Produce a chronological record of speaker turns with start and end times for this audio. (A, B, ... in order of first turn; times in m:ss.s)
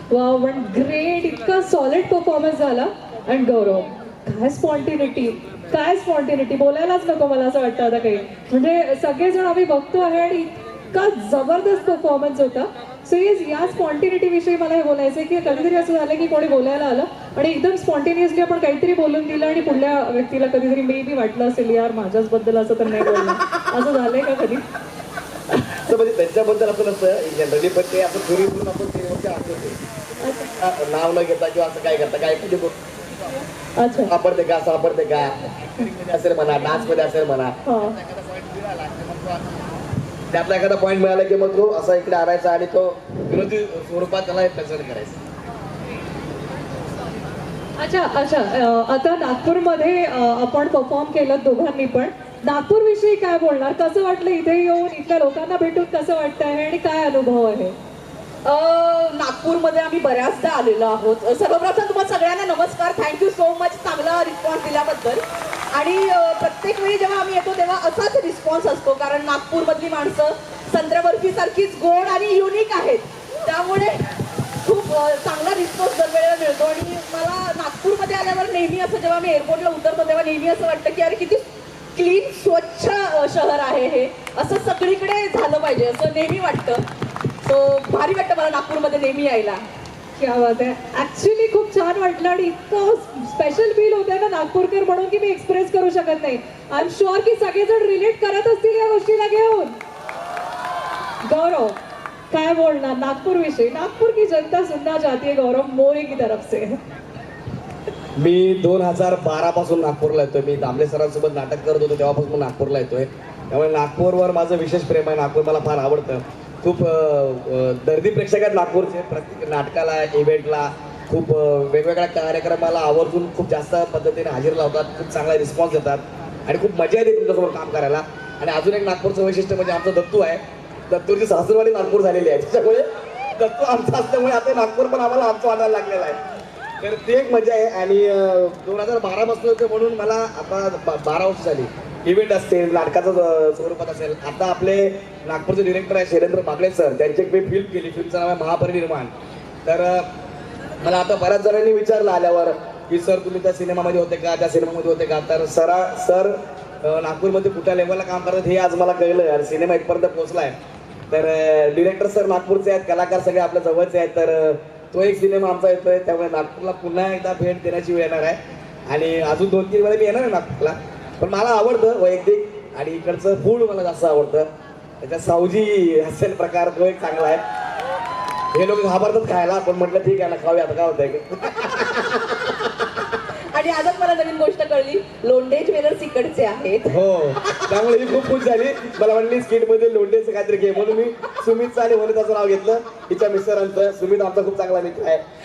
0:00.1-0:24.6 A
0:25.8-0:29.8 B
0:30.2-0:30.5 A
0:30.6-0:33.0 B
0:33.8-0:34.1 A
0:34.0-0:39.5 B
0:37.6-0:38.0 A
0:40.3-0:45.2 B
0:47.8-0:57.8 A
0:58.4-1:05.2 C
1:05.7-1:14.0 C
1:14.6-1:26.8 C
1:27.4-1:29.6 C
1:30.2-1:39.8 A
1:41.2-1:41.8 A
1:42.3-1:46.8 A
1:48.2-2:16.2 B
2:16.8-2:29.1 B
2:29.6-2:30.1 B
2:30.8-2:40.6 B
2:41.1-2:48.4 B
2:48.9-2:54.5 B
2:55.0-2:57.4 B
2:58.5-3:02.2 B
3:03.5-3:07.8 C
3:06.9-3:15.2 B